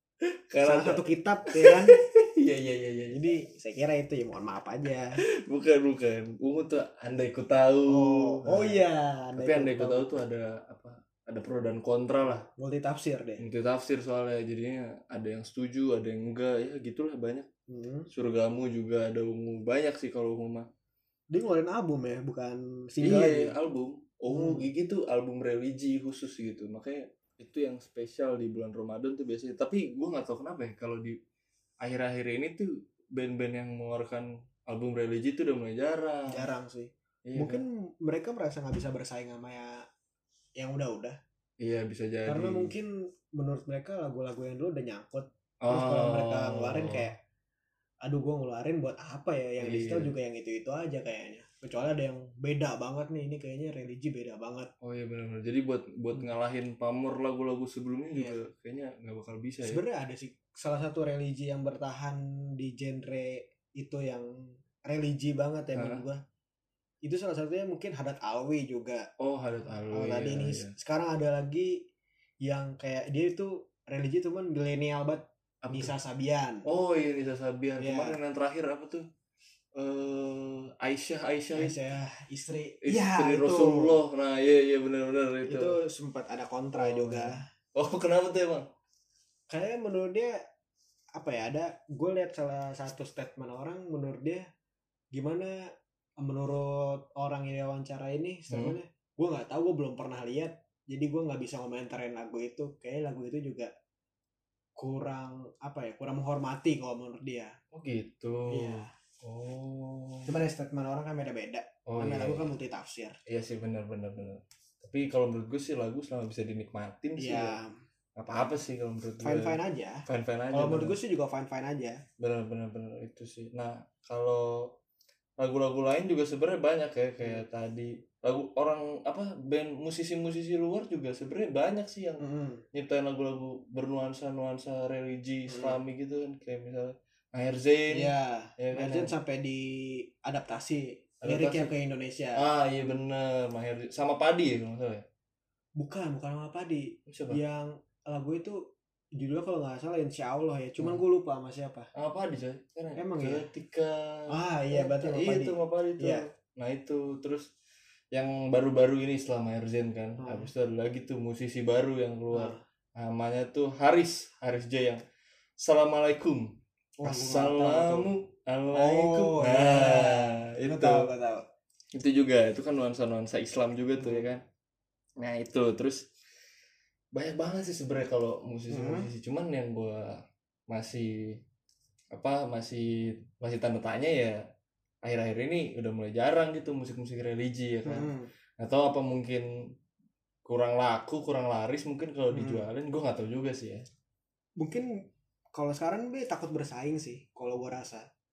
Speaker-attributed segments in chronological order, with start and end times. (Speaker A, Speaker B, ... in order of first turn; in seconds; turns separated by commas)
Speaker A: 0.2-3.2, Speaker B: 0.6-2.0, Speaker B: 3.1-5.2, Speaker A: 5.2-8.8, Speaker B: 7.9-10.1, Speaker A: 9.4-12.5, Speaker B: 12.6-13.4, Speaker A: 13.4-17.5, Speaker B: 17.7-18.1, Speaker A: 18.1-20.7, Speaker B: 21.3-23.6, Speaker A: 23.0-31.2, Speaker B: 24.3-24.7, Speaker A: 31.8-36.5, Speaker B: 36.3-39.9, Speaker A: 37.2-37.6, Speaker B: 40.6-41.2, Speaker A: 41.6-42.7, Speaker B: 42.3-47.2, Speaker A: 45.6-47.1, Speaker B: 48.0-54.7, Speaker A: 49.6-50.1, Speaker A: 54.8-59.8, Speaker B: 58.1-58.4, Speaker B: 59.6-64.3, Speaker B: 64.9-66.2, Speaker A: 65.7-66.0, Speaker B: 67.0-69.1, Speaker A: 69.2-70.7, Speaker B: 69.9-71.9, Speaker B: 72.4-76.7, Speaker A: 75.6-75.9, Speaker A: 76.7-79.1, Speaker B: 77.8-78.2, Speaker A: 79.8-81.8, Speaker B: 81.5-84.0, Speaker A: 82.8-85.8, Speaker B: 85.5-87.5, Speaker A: 86.7-88.7, Speaker B: 89.5-90.4, Speaker B: 91.2-94.5, Speaker B: 95.1-103.7, Speaker A: 98.5-98.8, Speaker B: 104.8-107.6, Speaker A: 107.7-110.3, Speaker B: 108.5-108.9, Speaker B: 110.3-113.2, Speaker A: 111.9-112.5, Speaker A: 113.3-117.6, Speaker B: 117.2-117.7, Speaker A: 118.2-121.0, Speaker B: 119.2-122.0, Speaker A: 122.2-124.7, Speaker A: 125.4-139.1, Speaker B: 132.2-132.6, Speaker B: 135.5-135.8, Speaker B: 137.9-142.4, Speaker A: 141.2-141.7, Speaker A: 142.4-145.1, Speaker B: 145.8-151.9, Speaker A: 147.1-147.4, Speaker A: 151.9-157.5, Speaker B: 153.0-153.5, Speaker B: 154.3-156.3, Speaker A: 158.1-165.0, Speaker B: 160.2-160.5, Speaker B: 162.3-162.6, Speaker A: 165.6-171.1, Speaker B: 167.0-168.1, Speaker B: 168.7-171.5, Speaker A: 171.9-174.4, Speaker B: 174.0-174.3, Speaker A: 175.2-176.1, Speaker A: 177.1-181.4, Speaker B: 178.7-179.1, Speaker A: 182.1-184.4, Speaker A: 185.0-189.5, Speaker B: 187.9-188.3, Speaker A: 190.4-193.9, Speaker B: 192.3-192.7, Speaker B: 194.6-195.0, Speaker B: 195.5-198.1